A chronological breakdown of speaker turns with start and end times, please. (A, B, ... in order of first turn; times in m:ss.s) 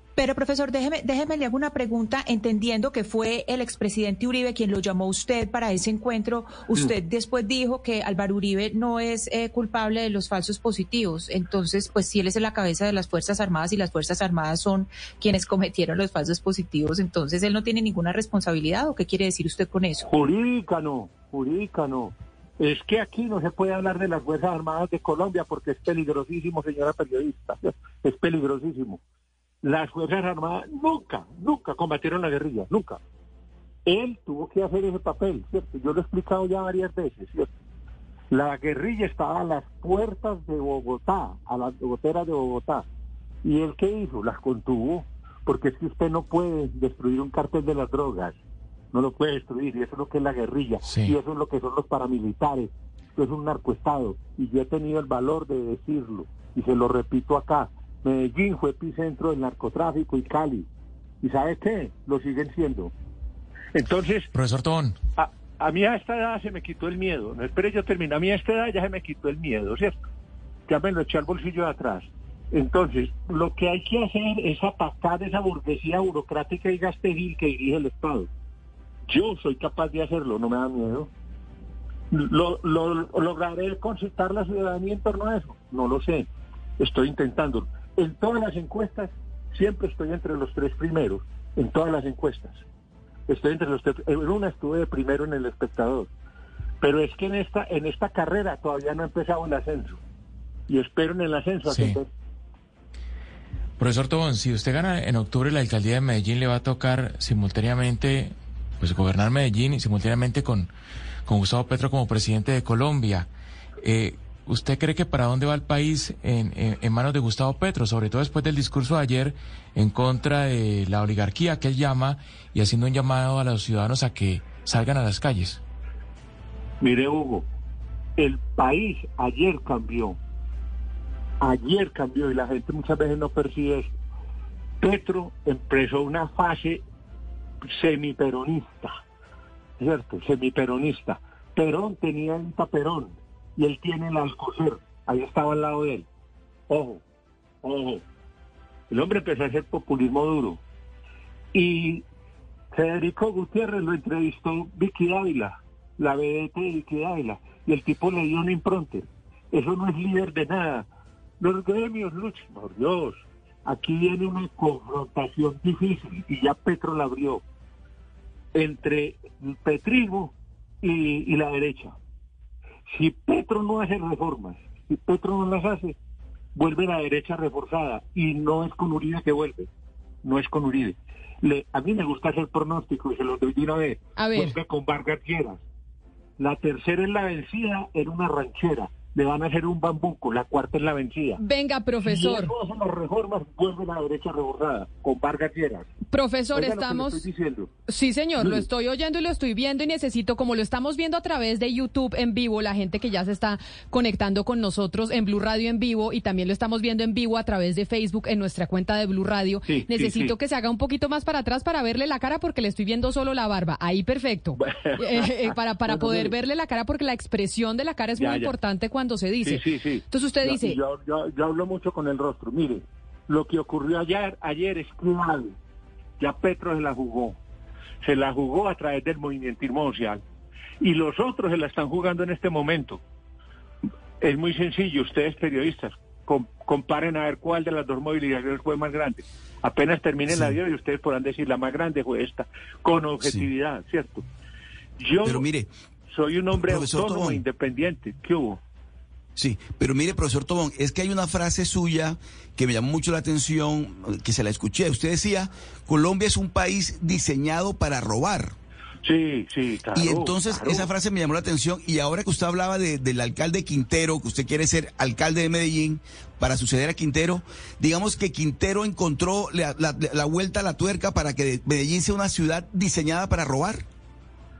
0:00.2-0:20.1 A
0:20.1-0:29.0 B
0:29.6-0:33.0 B
0:33.8-0:37.5 B
0:38.3-0:42.8 B
0:43.4-0:48.3 B
0:48.9-1:00.7 B
0:50.9-0:51.2 C
1:01.2-1:02.9 B
1:03.7-1:04.3 B
1:04.3-1:05.0 C
1:05.2-1:10.0 B
1:10.7-1:18.3 B
1:19.1-1:21.1 B
1:22.1-1:26.3 B
1:26.8-1:32.6 B
1:33.3-1:36.1 B
1:36.8-1:40.0 B
1:40.7-1:42.1 B
1:41.7-1:42.0 C
1:43.8-1:50.7 C
1:51.2-1:53.3 C
1:53.8-2:05.6 C
2:06.8-2:07.5 B
2:08.2-2:10.2 B
2:11.4-2:13.9 B
2:14.8-2:16.8 B
2:17.6-2:19.0 B
2:19.8-2:26.1 B
2:26.7-2:27.0 B
2:27.6-2:28.0 B
2:28.9-2:30.6 B
2:31.5-2:32.0 B
2:32.7-2:40.9 B
2:41.4-2:47.4 B
2:48.5-2:52.0 B
2:52.9-2:56.0 B
2:56.5-2:59.7 B
3:00.2-3:05.6 B
3:04.2-3:04.6 D
3:06.4-3:11.4 B
3:11.4-3:12.5 D
3:12.0-3:15.9 B
3:16.1-3:17.2 D
3:16.5-3:17.7 B
3:17.9-3:40.8 D
3:18.4-3:18.7 B
3:29.6-3:30.3 B
3:34.6-3:36.3 B
3:38.2-3:38.5 B
3:39.4-3:45.5 B
3:46.2-3:47.4 B
3:48.0-3:50.2 B
3:50.8-3:53.0 B
3:54.2-4:04.2 B
4:05.0-4:05.4 B
4:05.2-4:05.7 E
4:06.1-4:08.6 B
4:06.6-4:07.4 E
4:09.4-4:18.5 E
4:19.0-4:20.9 B
4:19.9-4:33.8 E